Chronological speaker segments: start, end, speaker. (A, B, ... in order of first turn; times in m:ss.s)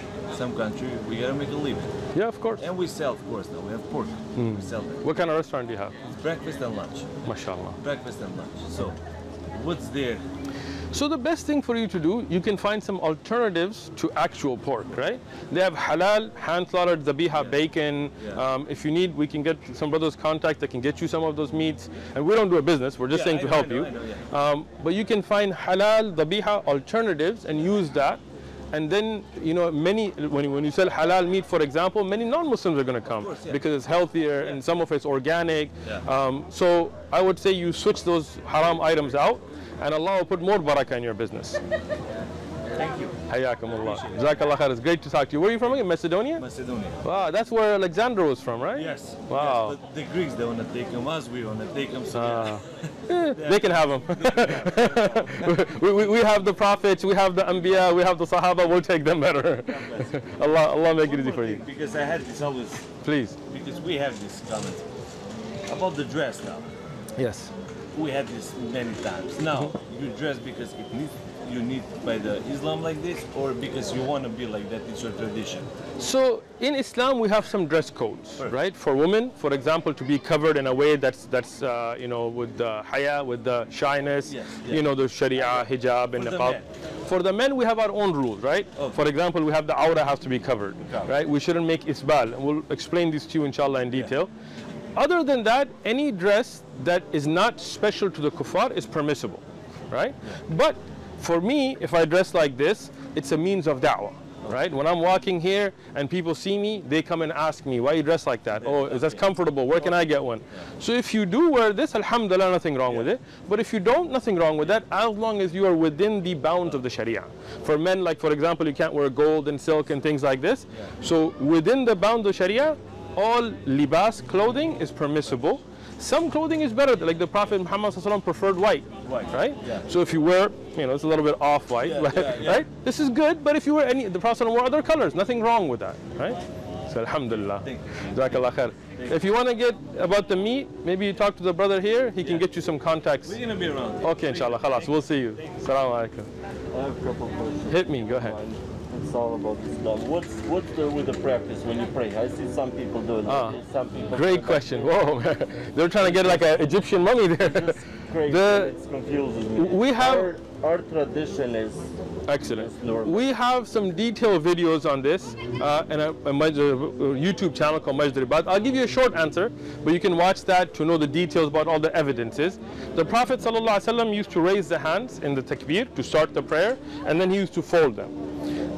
0:00.3-0:01.9 A
0:02.1-0:02.6 B
0:02.6-0:05.1 A
0:04.3-0:06.0 B
0:06.0-0:07.1 A
0:07.2-0:07.8 B
0:07.8-0:09.0 A
0:09.5-0:10.2 A
0:10.9-0:41.6 B
0:18.2-0:18.4 A
0:23.1-0:24.3 A
0:33.1-0:33.6 A
0:42.7-0:44.2 A
0:43.3-0:46.4 B
0:46.4-0:47.0 A
0:47.0-0:49.8 B
0:48.7-0:52.8 A
0:52.1-1:01.6 B
0:53.3-0:55.6 A
0:59.6-1:02.8 A
1:03.0-1:03.4 B
1:03.5-1:04.8 A
1:05.7-1:06.7 A
1:07.2-1:07.5 B
1:07.9-1:15.7 A
1:16.0-1:34.3 B
1:24.2-1:24.8 A
1:25.4-1:26.6 A
1:30.8-1:31.1 A
1:35.0-2:23.4 B
1:48.6-1:50.0 A
2:09.0-2:09.9 A
2:11.8-2:12.7 A
2:17.6-2:18.1 A
2:23.2-2:25.4 A
2:24.0-2:26.3 B
2:26.7-2:34.9 C
2:27.7-2:28.4 B
2:33.2-2:33.6 B
2:34.1-2:38.7 B
2:36.0-2:36.5 C
2:37.4-2:41.9 C
2:39.5-2:40.3 B
2:42.3-2:58.1 B
2:42.4-2:43.2 C